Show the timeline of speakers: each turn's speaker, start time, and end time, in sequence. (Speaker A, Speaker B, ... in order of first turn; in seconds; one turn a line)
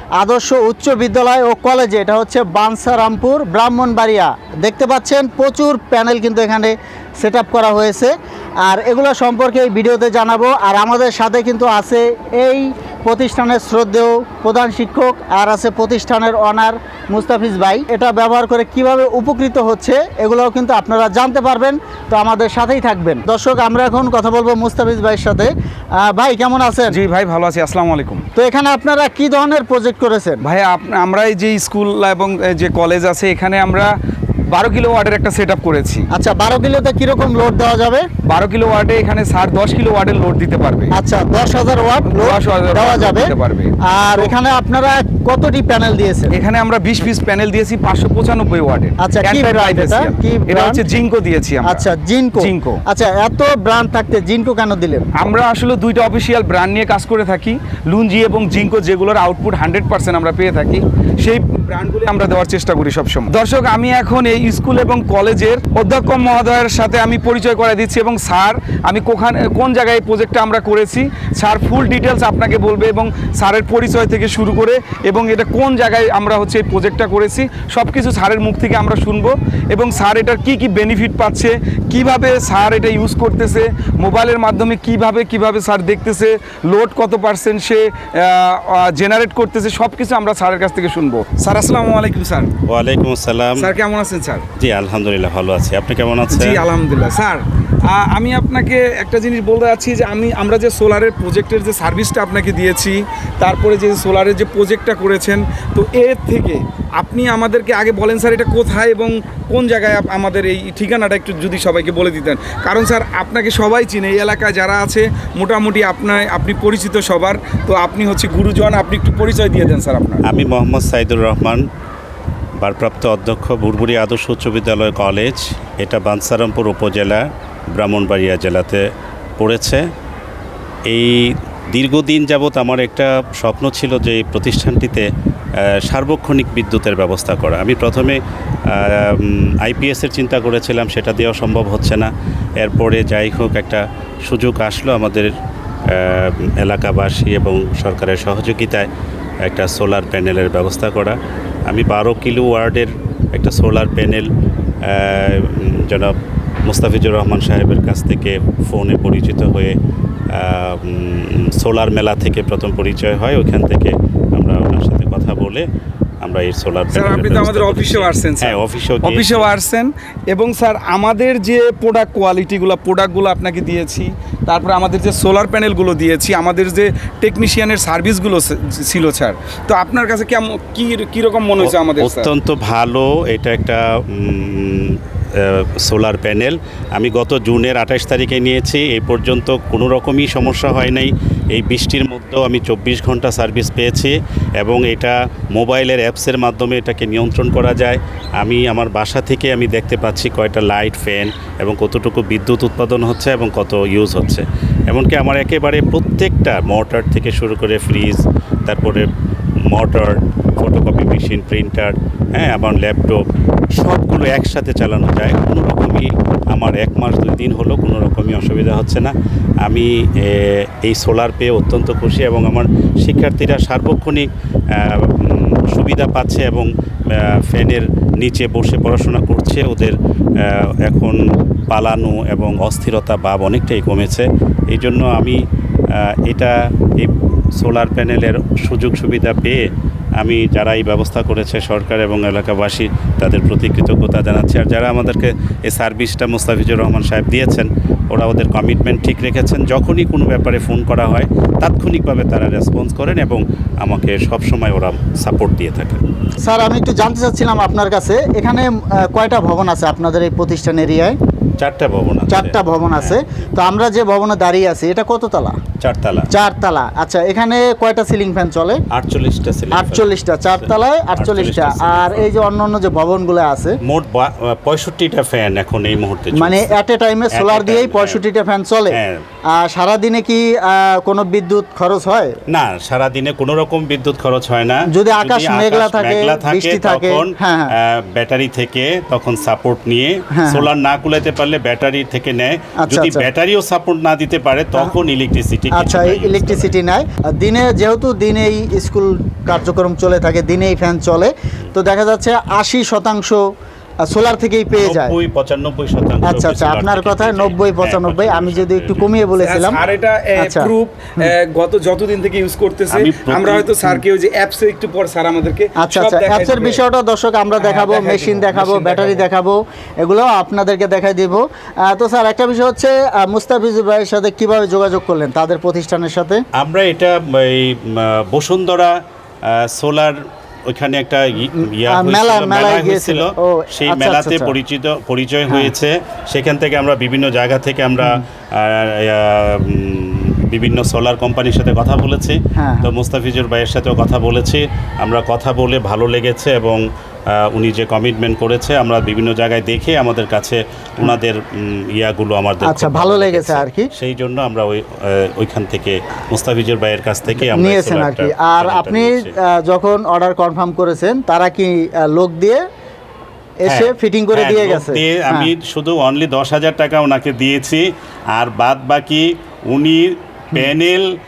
Speaker A: 0.2-8.1
Speaker A: 8.6-27.0
Speaker B: 26.9-28.3
Speaker A: 28.4-30.4
Speaker B: 30.4-33.9
Speaker B: 34.5-36.1
Speaker A: 36.1-38.1
Speaker B: 38.2-41.0
Speaker A: 40.9-46.4
Speaker B: 42.0-44.3
Speaker B: 46.3-52.8
Speaker A: 49.0-50.8
Speaker A: 51.6-55.1
Speaker B: 55.2-92.5
Speaker C: 92.7-93.7
Speaker B: 93.6-94.5
Speaker C: 94.6-96.7
Speaker B: 96.3-120.2
Speaker C: 120.2-121.7
Speaker C: 122.6-128.8
Speaker C: 129.4-129.8
Speaker C: 130.9-135.1
Speaker C: 135.7-145.3
Speaker C: 145.9-148.9
Speaker C: 149.4-154.3
Speaker C: 154.8-156.2
Speaker C: 156.7-159.8
Speaker C: 160.3-165.7
Speaker C: 166.2-169.5
Speaker B: 166.9-182.3
Speaker C: 181.6-209.1
Speaker C: 209.7-213.2
Speaker C: 213.8-219.1
Speaker C: 219.6-231.2
Speaker C: 231.7-235.4
Speaker C: 235.9-239.7
Speaker C: 240.2-256.0
Speaker A: 256.4-261.2
Speaker C: 261.6-263.2
Speaker A: 262.3-265.6
Speaker C: 265.8-266.3
Speaker A: 266.3-268.8
Speaker C: 268.9-272.3
Speaker A: 269.7-273.8
Speaker C: 273.8-276.8
Speaker A: 276.3-279.0
Speaker C: 277.3-278.2
Speaker C: 278.9-279.2
Speaker A: 279.6-282.4
Speaker C: 282.5-296.7
Speaker A: 284.9-287.7
Speaker A: 290.3-290.7
Speaker A: 292.8-293.3
Speaker A: 295.7-303.4
Speaker A: 304.0-305.2
Speaker C: 304.8-309.2
Speaker A: 306.2-309.8
Speaker B: 309.4-316.8
Speaker A: 310.4-310.7
Speaker C: 312.9-313.7
Speaker A: 315.8-326.4
Speaker B: 317.6-319.2
Speaker C: 326.6-359.3
Speaker A: 331.9-334.5
Speaker A: 335.5-335.7
Speaker A: 342.6-342.9
Speaker A: 352.6-353.9
Speaker A: 357.4-362.6
Speaker A: 363.6-365.5
Speaker C: 363.7-371.1